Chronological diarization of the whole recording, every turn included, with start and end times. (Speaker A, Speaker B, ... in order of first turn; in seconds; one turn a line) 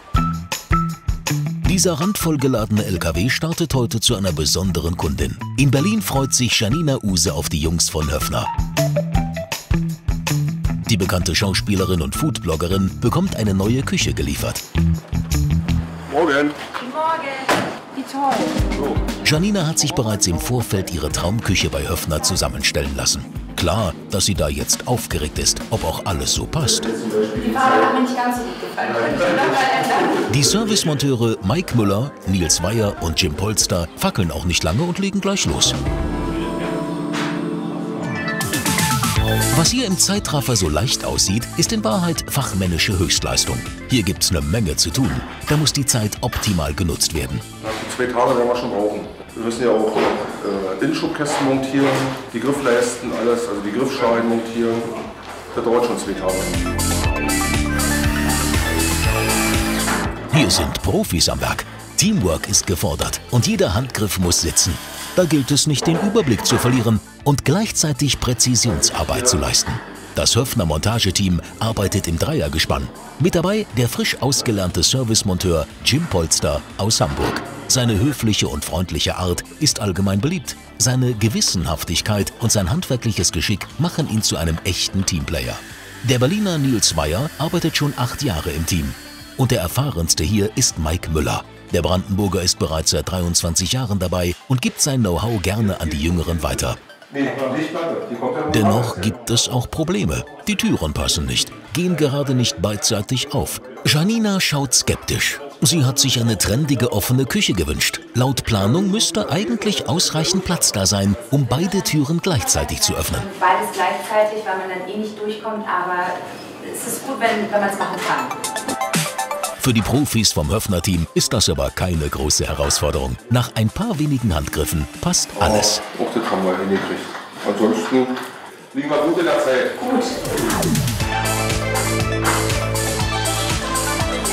Speaker A: 1.6-8.5
Speaker A: 10.9-14.6
Speaker B: 16.1-16.6
Speaker C: 16.7-18.7
Speaker B: 18.8-19.0
Speaker A: 19.2-27.0
Speaker B: 26.9-27.9
Speaker C: 27.4-30.3
Speaker B: 29.1-29.7
Speaker A: 30.3-35.8
Speaker A: 39.5-47.5
Speaker B: 47.6-54.9
Speaker B: 55.5-56.5
Speaker A: 60.3-96.8
Speaker B: 97.1-99.1
Speaker A: 98.5-113.3
Speaker C: 111.5-118.4
Speaker A: 119.6-125.8
Speaker B: 125.4-128.2
Speaker B: 128.7-129.8
Speaker C: 129.8-130.2